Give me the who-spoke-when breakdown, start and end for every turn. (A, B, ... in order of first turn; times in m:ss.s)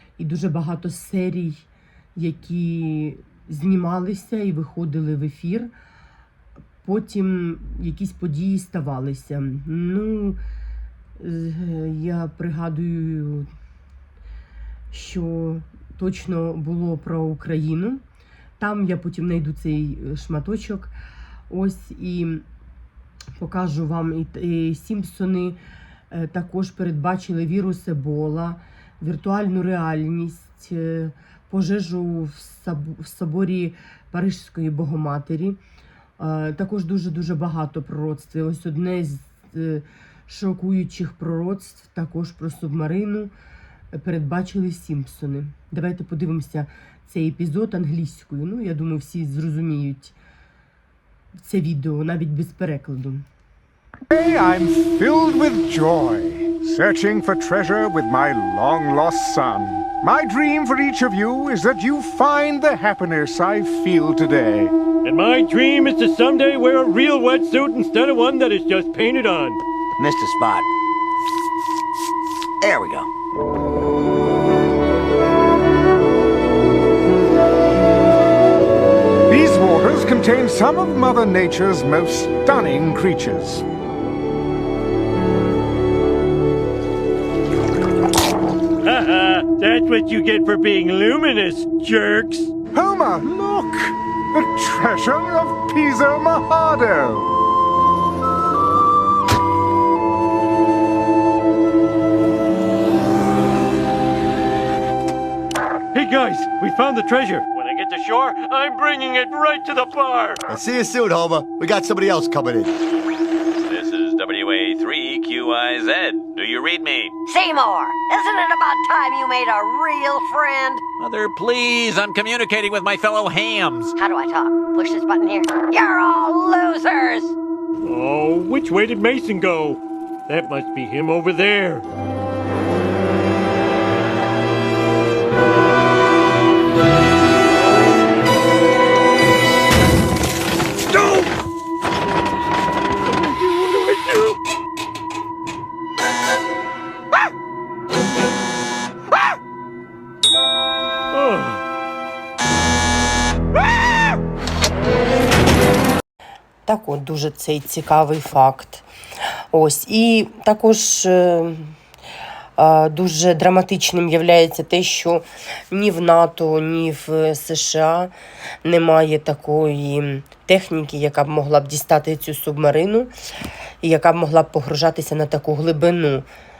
0:00.2-0:05.7 A
0:06.8-0:10.4 A
0:11.2-0:13.5 A
0:14.9-0:18.0 A
0:18.6-0:20.9 A
0:21.5-0:22.4 A
0:23.4-0:25.6 A
0:26.1-0:35.6 A
0:36.2-0:43.3 A
0:43.9-0:50.2 A
0:51.4-0:53.2 A
0:54.1-1:04.7 B
1:05.0-1:09.6 C
1:10.0-1:10.7 D
1:12.6-1:13.1 D
1:19.3-1:23.6 B
1:28.8-1:32.5 C
1:32.7-1:37.3 B
1:45.9-1:50.4 C
1:50.5-1:52.7 D
1:53.6-1:57.2 E
1:57.2-2:00.8 F
2:01.0-2:03.9 E
2:04.0-2:07.3 F
2:07.8-2:11.8 C
2:23.3-2:24.3 C
2:31.2-2:31.5 C
2:36.6-2:38.8 A
2:39.5-2:41.8 A
2:42.6-2:48.1 A
2:48.6-2:53.1 A
2:53.8-2:56.3 A